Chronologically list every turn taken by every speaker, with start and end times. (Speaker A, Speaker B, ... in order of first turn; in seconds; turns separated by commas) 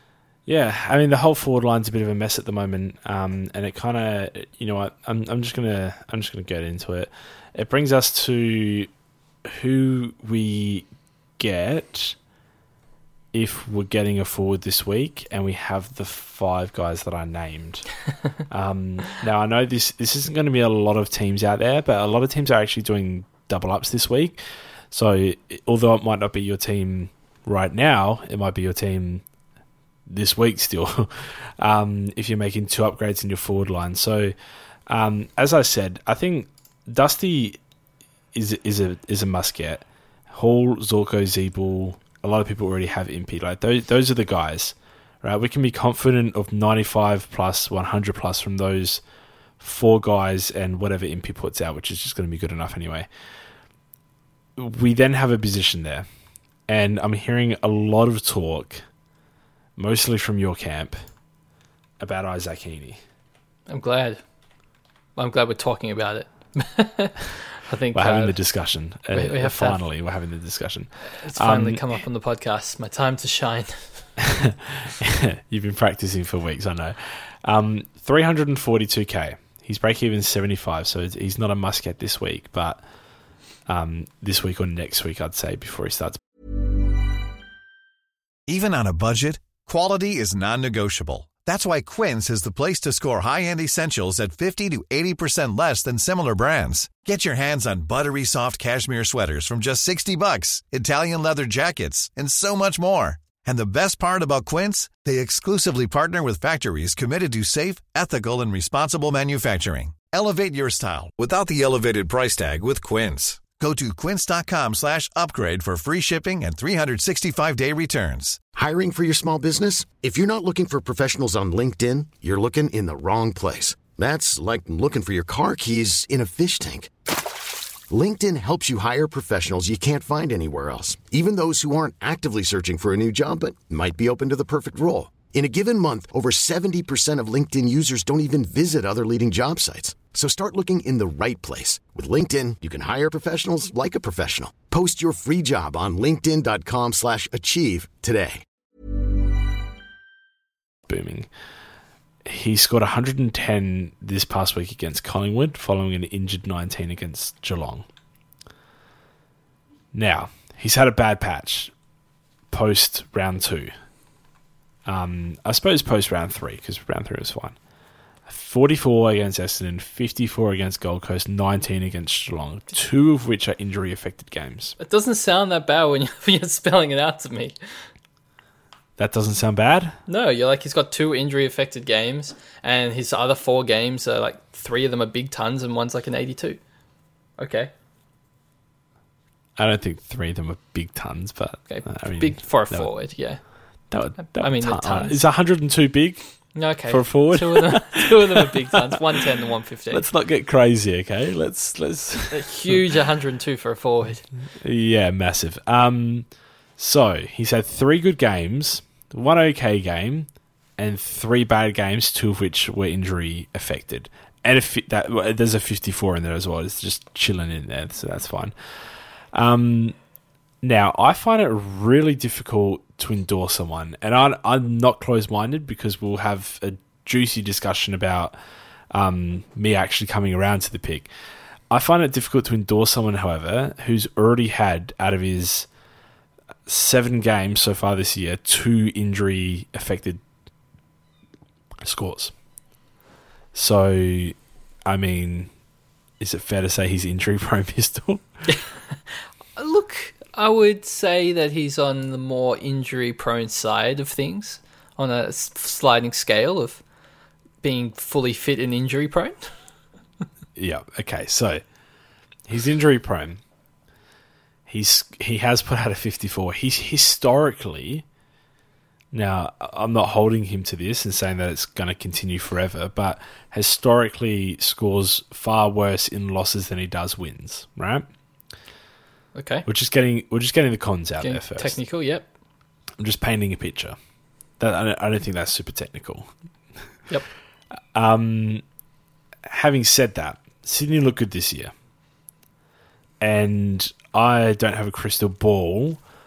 Speaker A: 0.5-8.9, Speaker A: 9.4-12.2, Speaker A: 13.3-17.9, Speaker A: 18.5-24.4, Speaker A: 24.9-29.2, Speaker A: 30.1-34.3, Speaker A: 34.9-37.6, Speaker A: 38.3-49.0, Speaker A: 49.6-53.1, Speaker A: 54.5-56.1, Speaker A: 56.7-58.8, Speaker A: 59.8-61.0, Speaker A: 62.0-63.0, Speaker B: 63.7-64.2, Speaker B: 65.2-68.4, Speaker A: 67.9-72.0, Speaker B: 69.1-69.8, Speaker B: 71.1-74.2, Speaker A: 74.4-82.8, Speaker A: 83.7-86.2, Speaker C: 88.5-118.4, Speaker D: 118.5-126.9, Speaker D: 127.9-148.4, Speaker A: 150.9-151.3, Speaker A: 152.2-157.8, Speaker A: 159.9-161.7, Speaker A: 162.5-163.7, Speaker A: 164.8-167.6, Speaker A: 168.2-174.8, Speaker B: 174.8-177.8, Speaker A: 179.0-180.0, Speaker B: 180.1-186.6, Speaker B: 187.4-187.7, Speaker A: 189.6-193.0, Speaker B: 191.7-193.4, Speaker A: 193.9-198.9, Speaker B: 194.2-195.2, Speaker B: 196.5-200.1, Speaker A: 199.9-202.8, Speaker B: 202.3-204.2, Speaker A: 204.6-218.5, Speaker A: 219.3-219.9, Speaker A: 220.6-228.3, Speaker A: 228.9-231.1, Speaker A: 231.7-235.7, Speaker A: 236.7-240.2, Speaker A: 241.8-242.3, Speaker A: 243.5-245.5, Speaker A: 246.2-248.2, Speaker B: 249.6-256.8, Speaker B: 257.6-259.5, Speaker A: 260.6-261.6, Speaker A: 262.5-263.4, Speaker A: 264.6-268.0, Speaker A: 269.1-278.1, Speaker B: 279.3-279.6, Speaker A: 279.6-281.8, Speaker B: 281.2-282.3, Speaker A: 283.0-284.0, Speaker A: 284.6-286.3, Speaker A: 287.9-288.6, Speaker A: 289.4-291.7, Speaker A: 293.2-296.0